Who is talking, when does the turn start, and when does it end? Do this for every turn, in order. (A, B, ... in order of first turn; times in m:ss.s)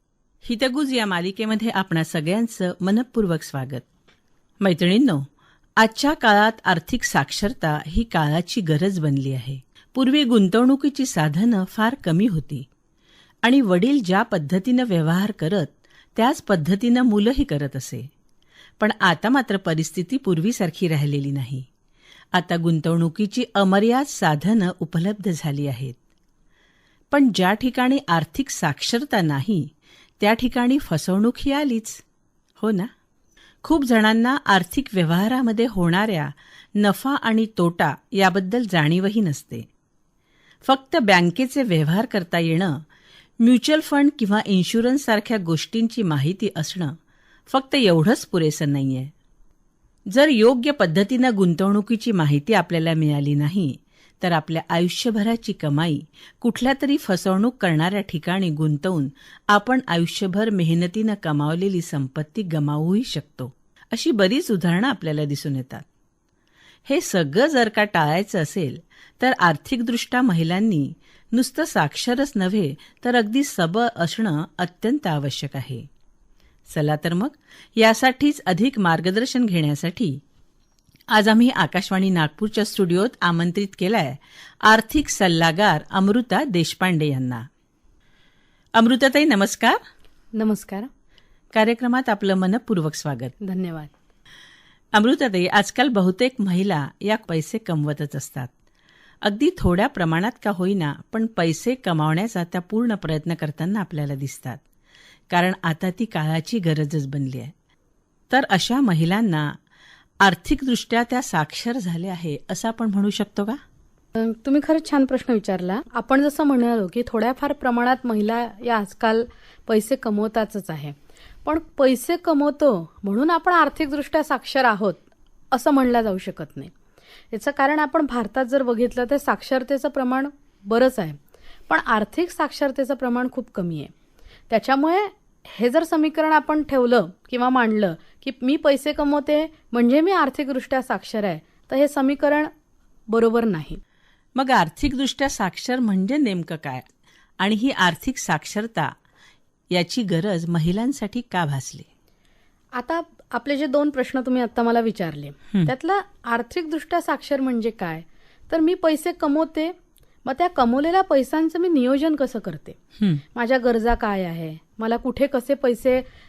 0:00.4-0:03.8 A
0:04.6-0:05.3 A
0:05.8-0:12.7 A
0:13.4-0:18.1 A
0:18.8-0:21.7 A
0:22.3-0:26.0 A
0:27.1-0:29.7 A
0:30.2-0:32.0 A
0:32.6-0:32.9 A
0:33.6-0:39.7 A
0:40.6-0:42.8 A
0:43.4-0:46.9 A
0:47.5-0:49.1 A
0:50.1-1:05.8 A
1:06.8-1:15.8 A
1:16.7-1:20.2 A
1:21.1-1:27.4 A
1:28.8-1:29.8 A
1:30.3-1:30.9 B
1:31.5-1:33.3 A
1:33.4-1:33.9 B
1:34.9-1:38.5 A
1:39.2-1:44.6 A
1:45.3-1:47.5 A
1:48.3-1:49.5 A
1:50.2-1:53.6 A
1:54.1-2:06.7 B
2:07.3-2:11.2 B
2:11.7-2:13.9 B
2:14.5-2:22.5 B
2:23.1-2:23.8 B
2:24.4-2:26.8 A
2:27.4-2:28.9 A
2:29.7-2:31.9 A
2:32.7-2:39.7 B
2:40.2-2:42.8 B
2:43.3-2:46.0 B